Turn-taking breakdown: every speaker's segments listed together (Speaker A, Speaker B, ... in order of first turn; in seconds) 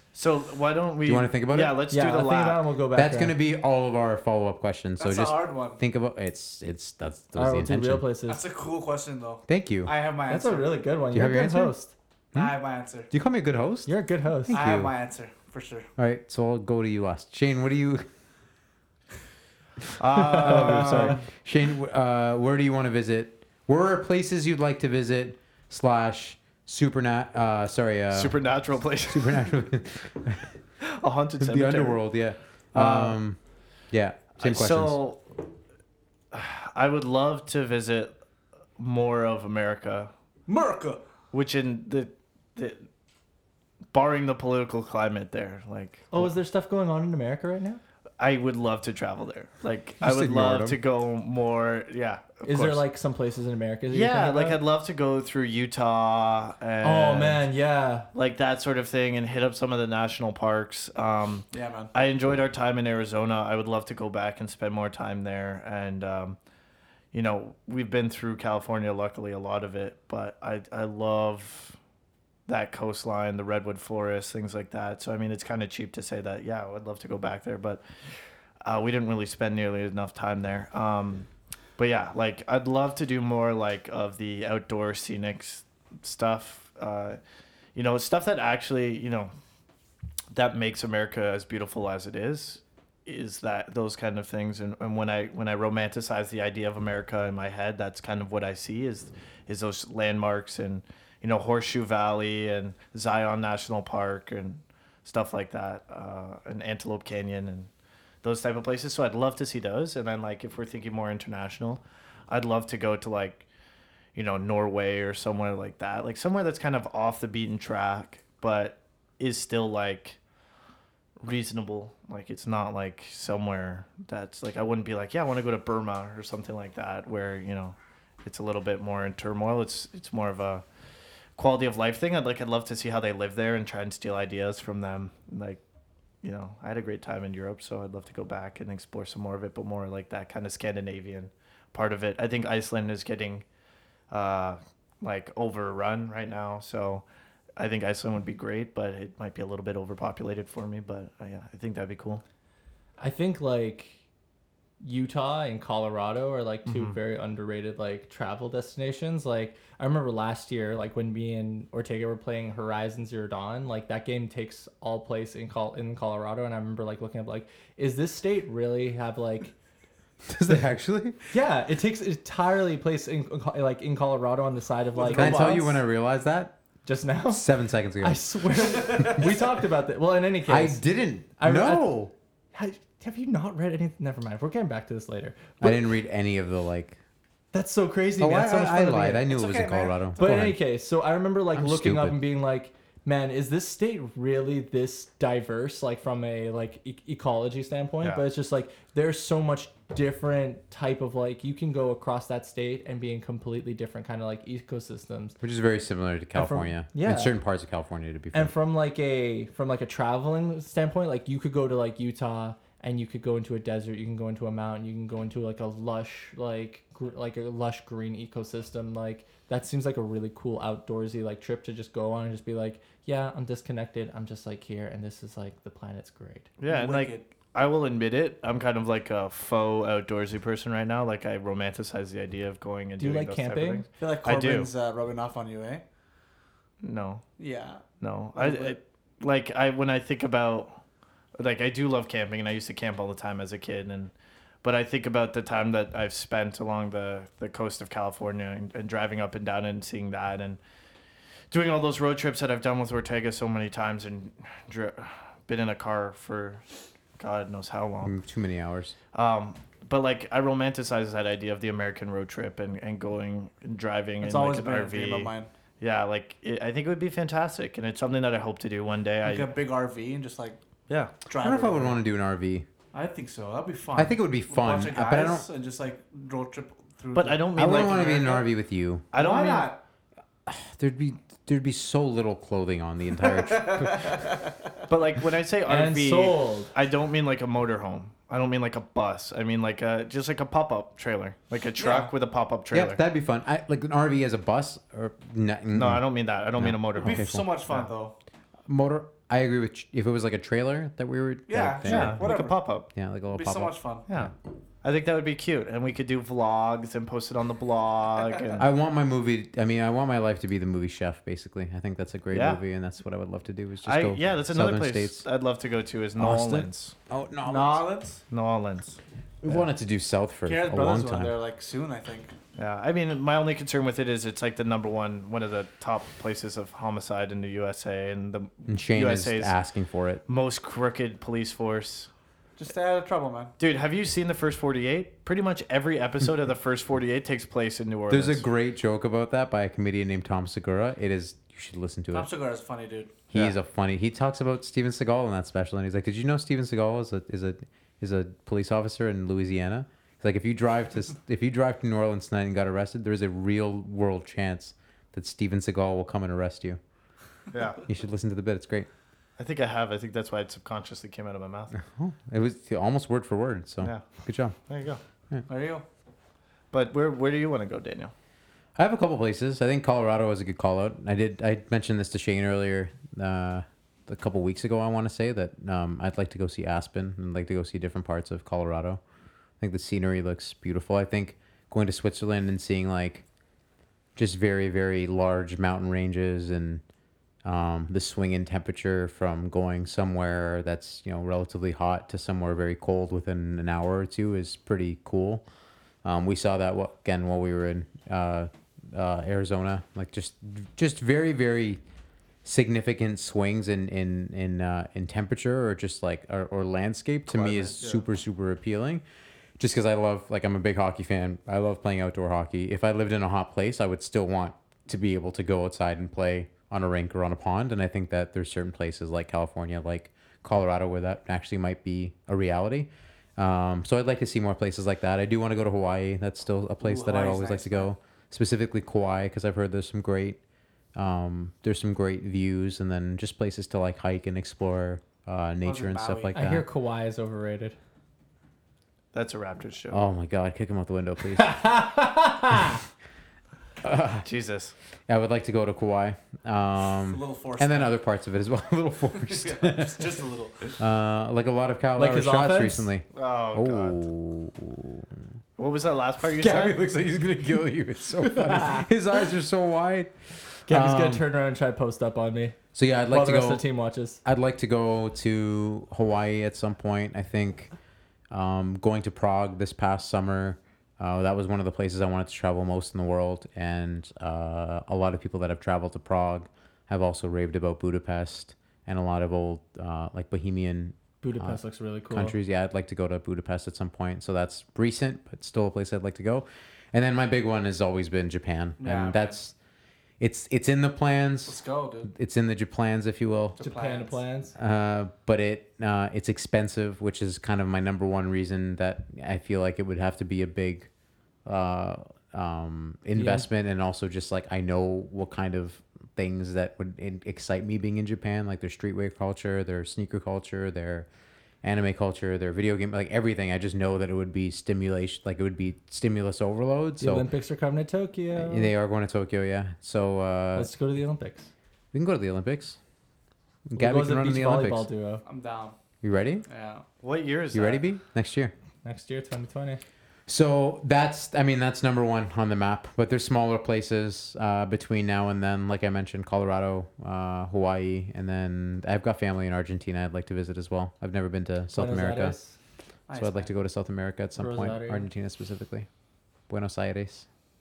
Speaker A: 0.1-2.6, 20.0-21.3, 28.1-29.4, 30.8-32.1, 32.7-33.2, 34.4-35.2, 36.3-38.1, 38.8-40.1, 41.3-42.9, 43.9-46.3, 48.2-52.8, 53.9-57.4, 58.1-66.4, 67.1-71.8, 72.5-77.8, 78.6-87.2, 87.7-89.3, 90.3-107.7, 108.2-113.5, 114.1-120.2, 121.2-130.6, 131.4-135.6, 136.2-143.4, 144.1-147.0, 147.6-152.2, 156.7-157.0, 226.6-234.7, 236.8-237.2, 238.0-240.8, 241.4-250.6, 251.5-256.6, 257.2-258.1, 259.1-269.5, 277.1-278.3, 279.1-279.7, 284.9-293.0, 295.7-297.9, 301.8-302.9, 304.1-308.6, 312.3-312.6, 313.8-316.9, 318.3-319.7, 322.6-329.5, 330.3-332.1, 333.6-338.4, 357.5-357.8, 359.4-361.7, 364.7-365.0, 366.7-368.1, 407.3-408.0, 439.1-440.1, 444.2-444.7, 453.1-454.0, 455.6-456.8, 527.0-527.8
Speaker B: 1.0-1.8, 2.9-8.1, 9.4-9.9, 11.1-11.7, 13.1-13.9, 14.4-14.9, 16.0-18.1, 20.3-28.5, 29.0-30.5, 31.4-33.4, 33.9-35.0, 50.0-50.8, 170.2-171.2, 175.1-176.6, 177.3-178.2, 178.7-179.5, 180.4-182.1, 185.6-187.0, 188.2-190.6, 191.5-192.2, 205.4-208.5, 258.0-258.9, 271.4-272.6, 273.9-275.4, 277.6-279.1, 280.4-284.3, 292.7-296.0, 296.6-297.4, 298.6-302.3, 302.9-304.3, 308.6-315.2, 316.2-317.8, 319.4-321.4, 328.7-330.2, 338.1-342.3, 343.3-356.8, 357.9-358.9, 361.7-364.6, 368.8-379.0, 379.6-383.2, 384.1-386.8, 387.4-395.4, 396.0-401.8, 402.4-409.0, 409.6-430.4, 430.9-436.6, 439.9-441.6, 443.8-444.2, 445.1-450.1, 450.8-455.2, 456.2-460.1, 460.7-461.2, 462.7-463.6, 464.2-467.7, 468.3-489.5, 490.2-493.6, 494.6-500.9, 501.4-511.1, 511.6-517.3, 518.3-520.7, 521.9-522.8, 523.7-524.9, 526.0-526.4, 527.5-528.5, 530.3-542.4, 543.1-545.9, 546.5-547.3
Speaker C: 1.9-3.3, 7.3-8.4, 10.3-11.9, 13.9-14.6, 20.3-21.2, 46.1-47.8, 52.4-54.6, 56.8-58.1, 153.0-153.9, 154.8-169.5, 171.3-175.8, 176.8-177.4, 178.0-180.8, 181.4-182.0, 182.5-185.8, 187.5-189.3, 190.2-205.4, 206.3-207.3, 208.3-226.5, 233.0-233.8, 285.6-286.7, 436.3-437.8, 441.3-442.8, 452.0-452.9, 458.4-458.8, 460.7-462.6, 463.1-464.2, 481.2-482.4, 493.6-494.5, 503.1-503.5, 517.0-518.7, 520.5-521.5, 523.8-525.2, 528.8-529.8, 541.7-542.5, 544.4-545.0
Speaker D: 5.0-5.8, 8.2-10.8, 12.3-13.1, 14.5-15.9, 40.5-41.0, 61.5-61.9, 174.9-175.6, 189.3-190.4, 226.7-227.3, 234.0-235.8, 237.4-237.8, 238.3-238.8, 264.2-265.5, 269.2-270.6, 271.2-272.0, 272.9-278.4, 279.1-279.8, 283.2-284.8, 291.8-292.1, 297.0-298.1, 301.5-302.6, 303.3-304.1, 317.4-318.2, 320.4-322.3, 332.6-333.5, 342.1-343.1, 365.5-365.8, 426.8-427.9, 435.6-436.4, 447.1-447.9, 449.2-450.8, 488.8-489.4, 491.4-492.1, 493.6-494.2, 525.2-525.8, 526.5-526.8, 543.1-543.5